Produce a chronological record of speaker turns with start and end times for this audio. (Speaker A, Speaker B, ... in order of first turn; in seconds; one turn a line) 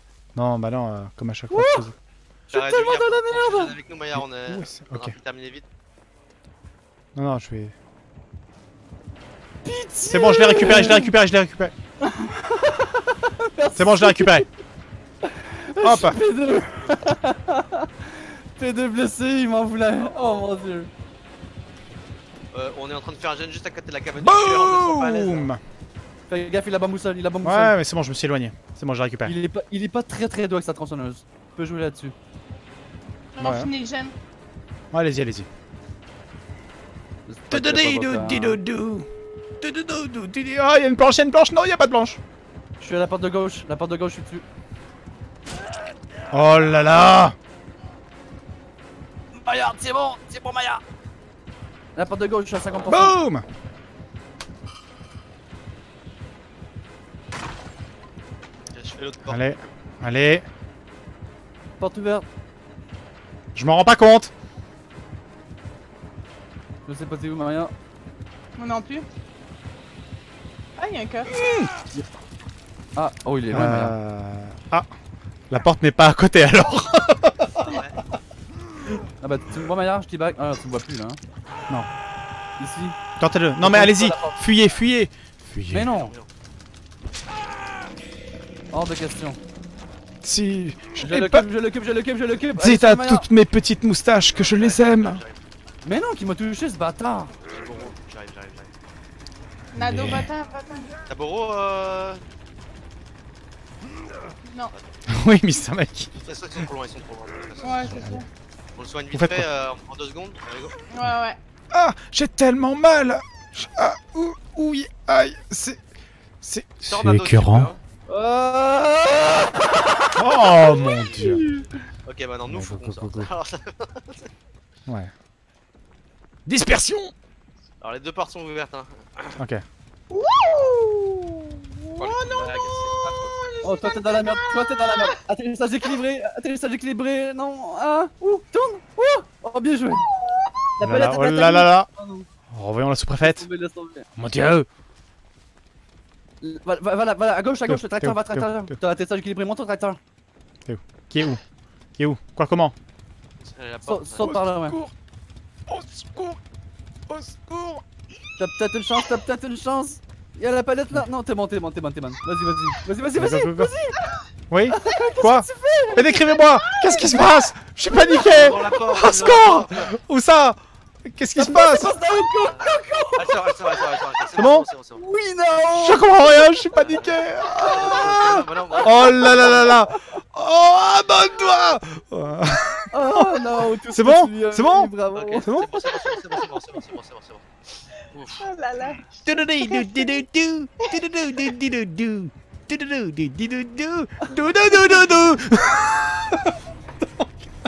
Speaker A: 0.3-1.9
Speaker B: 1.5-1.9
Speaker C: 2.5-5.6
Speaker B: 2.5-3.8
Speaker A: 4.1-5.2
Speaker A: 7.1-7.7
Speaker B: 9.6-11.1
Speaker A: 10.1-11.7
Speaker B: 12.0-14.4
Speaker A: 13.7-14.5
Speaker B: 15.2-20.9
Speaker A: 15.8-16.2
Speaker C: 20.0-20.5
Speaker C: 22.5-25.5
Speaker A: 24.2-25.6
Speaker B: 26.3-27.8
Speaker A: 27.4-29.4
Speaker B: 29.2-32.1
Speaker D: 33.4-34.1
Speaker A: 33.4-33.7
Speaker A: 34.9-35.5
Speaker B: 37.3-38.6
Speaker A: 37.5-42.2
Speaker B: 42.8-44.4
Speaker A: 46.3-47.4
Speaker B: 49.3-50.8
Speaker B: 51.9-53.2
Speaker A: 52.9-53.4
Speaker C: 58.7-59.4
Speaker A: 59.2-60.5
Speaker B: 61.8-62.2
Speaker A: 63.5-64.3
Speaker B: 66.8-67.7
Speaker D: 68.6-69.1
Speaker D: 70.8-71.3
Speaker A: 71.4-71.7
Speaker B: 73.0-74.0
Speaker A: 73.5-74.9
Speaker A: 75.5-77.8
Speaker C: 77.6-78.0
Speaker B: 79.2-81.2
Speaker B: 82.6-83.0
Speaker A: 83.2-85.9
Speaker B: 83.6-84.4
Speaker B: 85.7-86.1
Speaker C: 85.9-86.3
Speaker B: 88.7-89.4
Speaker A: 90.2-91.5
Speaker B: 91.0-93.3
Speaker A: 92.6-95.2
Speaker C: 94.3-95.4
Speaker B: 95.8-97.3
Speaker C: 97.5-98.7
Speaker D: 99.7-100.9
Speaker A: 99.7-100.3
Speaker C: 101.1-102.2
Speaker D: 104.5-104.7
Speaker A: 105.1-106.1
Speaker C: 106.1-107.9
Speaker D: 107.6-108.2
Speaker A: 107.9-108.2
Speaker C: 108.8-110.8
Speaker A: 109.1-109.5
Speaker D: 110.9-111.4
Speaker A: 111.7-115.8
Speaker A: 116.4-117.7
Speaker C: 116.8-117.8
Speaker B: 118.1-120.1
Speaker A: 120.2-121.5
Speaker C: 120.7-121.4
Speaker B: 121.1-121.7
Speaker C: 122.0-124.3
Speaker A: 122.4-123.3
Speaker A: 124.9-125.1
Speaker A: 126.5-127.1
Speaker C: 127.8-129.4
Speaker A: 129.4-129.6
Speaker D: 130.1-132.6
Speaker C: 131.9-133.3
Speaker D: 133.4-135.1
Speaker B: 133.6-140.1
Speaker B: 140.8-142.3
Speaker A: 140.8-141.9
Speaker A: 142.5-143.4
Speaker B: 143.2-144.1
Speaker A: 144.2-144.7
Speaker B: 146.4-150.0
Speaker A: 147.7-148.7
Speaker A: 150.7-151.4
Speaker A: 152.0-152.7
Speaker C: 153.4-154.3
Speaker B: 153.8-154.8
Speaker A: 154.2-154.9
Speaker A: 155.7-156.4
Speaker A: 157.1-157.8
Speaker B: 158.4-164.0
Speaker A: 163.2-163.7
Speaker A: 164.5-171.9
Speaker B: 164.7-166.2
Speaker D: 166.8-167.3
Speaker C: 168.2-169.9
Speaker B: 171.3-174.1
Speaker C: 172.5-175.0
Speaker A: 174.3-174.6
Speaker B: 174.9-176.2
Speaker A: 175.7-178.2
Speaker C: 176.9-179.7
Speaker A: 178.8-183.3
Speaker B: 178.9-179.7
Speaker B: 182.9-185.5
Speaker A: 183.9-184.9
Speaker C: 185.1-187.4
Speaker A: 185.4-185.7
Speaker C: 188.1-188.4
Speaker D: 188.4-190.2
Speaker A: 189.2-196.5